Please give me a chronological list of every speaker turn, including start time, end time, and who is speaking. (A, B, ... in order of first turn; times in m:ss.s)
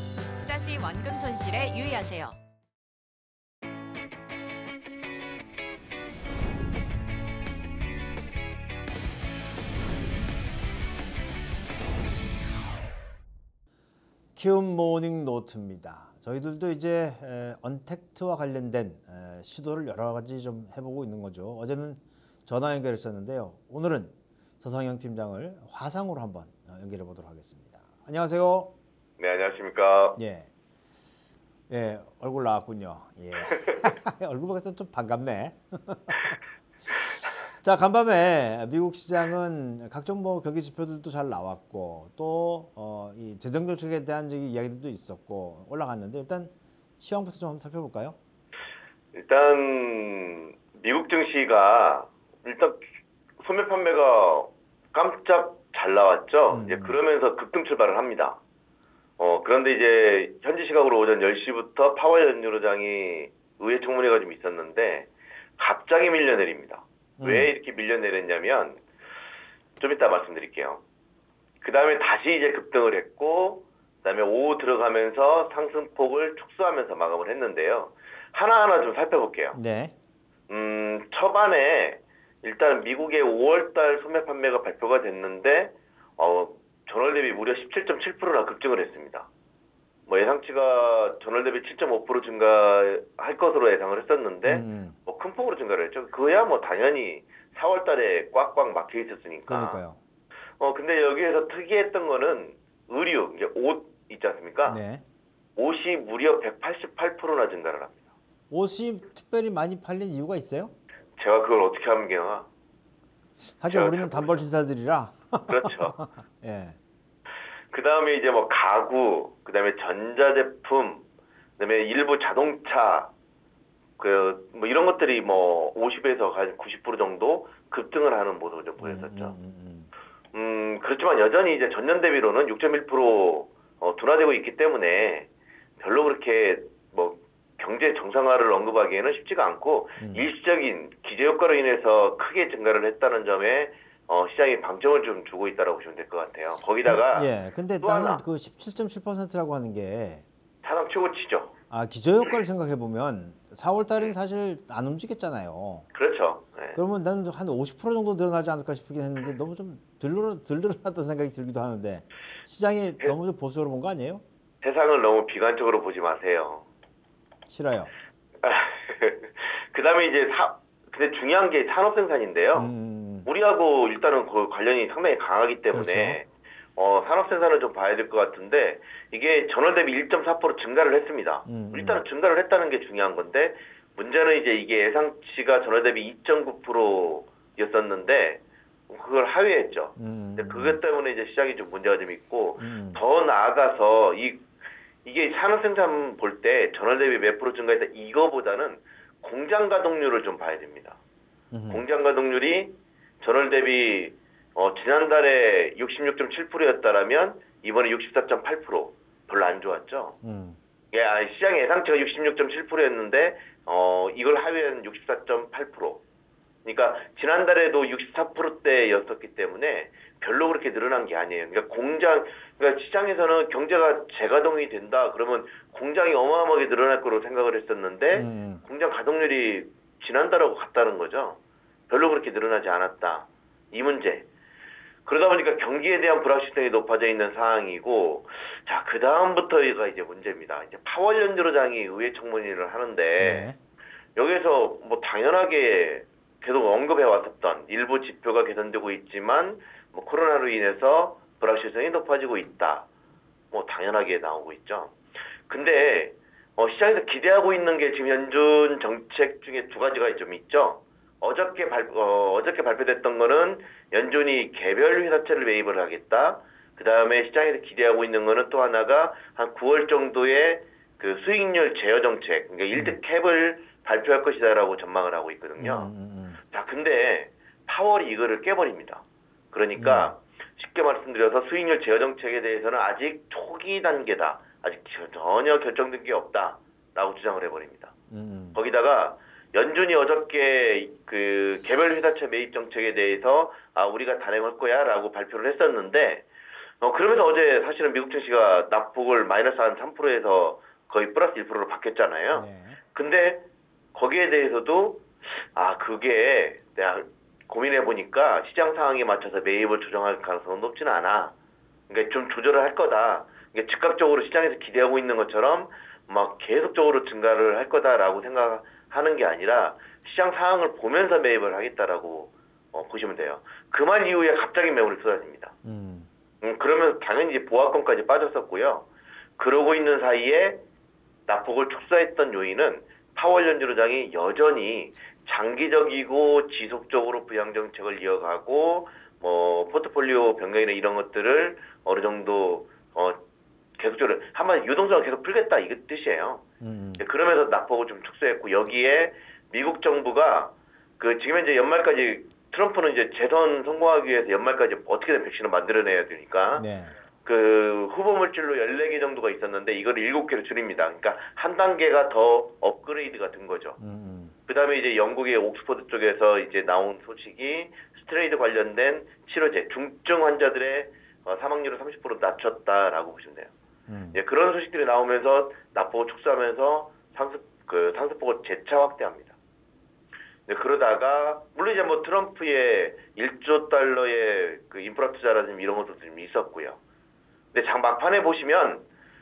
0:00.3-0:02.4 A
0:14.4-0:28.7 B
0:29.2-0:30.2 C
0:30.2-0:30.5 B
0:31.7-0:48.2 B
0:49.1-0:52.8 C
0:53.4-0:58.4 C
0:56.5-0:57.0 B
0:59.2-1:08.8 C
1:07.2-1:07.5 B
1:09.8-1:10.8 C
1:11.6-1:19.6 C
1:19.5-1:19.9 B
1:20.5-1:29.3 C
1:30.1-1:39.8 C
1:34.4-1:35.0 B
1:39.5-1:40.0 B
1:40.6-1:44.8 C
1:44.6-1:45.0 B
1:45.6-1:48.0 C
1:48.5-1:50.7 B
1:51.2-1:52.5 C
1:53.6-1:56.8 B
1:53.7-1:54.5 C
1:55.5-1:56.0 C
1:57.7-2:01.0 C
2:01.6-2:03.1 C
2:04.0-2:09.4 C
2:08.8-2:09.9 B
2:10.3-2:28.2 C
2:20.0-2:20.2 B
2:26.8-2:30.2 B
2:30.6-2:31.5 C
2:31.7-2:35.9 B
2:35.9-2:36.8 C
2:36.7-2:44.2 B
2:44.6-2:46.7 C
2:47.5-2:47.9 B
2:48.4-2:52.7 C
2:52.5-2:53.3 B
2:53.2-3:14.5 C
2:55.7-2:56.2 B
3:01.5-3:02.0 B
3:10.0-3:10.8 B
3:12.6-3:13.0 B
3:15.0-3:21.0 C
3:21.5-3:21.8 B
3:21.7-3:30.2 C
3:30.2-3:30.6 B
3:30.9-3:36.0 C
3:36.6-3:54.3 C
3:48.1-3:48.6 B
3:55.0-4:03.5 C
4:03.2-4:03.6 B
4:04.2-4:12.9 C
4:13.5-4:14.9 C
4:15.5-4:35.9 C
4:32.7-4:33.0 B
4:35.6-4:36.4 B
4:36.4-4:47.9 C
4:39.8-4:40.1 B
4:48.1-4:48.6 B
4:48.5-4:56.2 C
4:56.8-5:11.3 C
5:02.3-5:02.8 B
5:11.9-5:25.6 C
5:25.6-5:26.1 B
5:26.4-5:30.6 C
5:31.3-5:43.2 C
5:43.8-5:46.4 C
5:46.6-5:47.0 B
5:47.0-5:56.7 C
5:56.5-5:57.0 B
5:57.2-6:03.8 C
6:03.8-6:04.3 B
6:04.4-6:13.5 C
6:13.9-6:14.2 B
6:14.1-6:19.4 C
6:20.5-6:26.8 C
6:27.5-6:28.8 C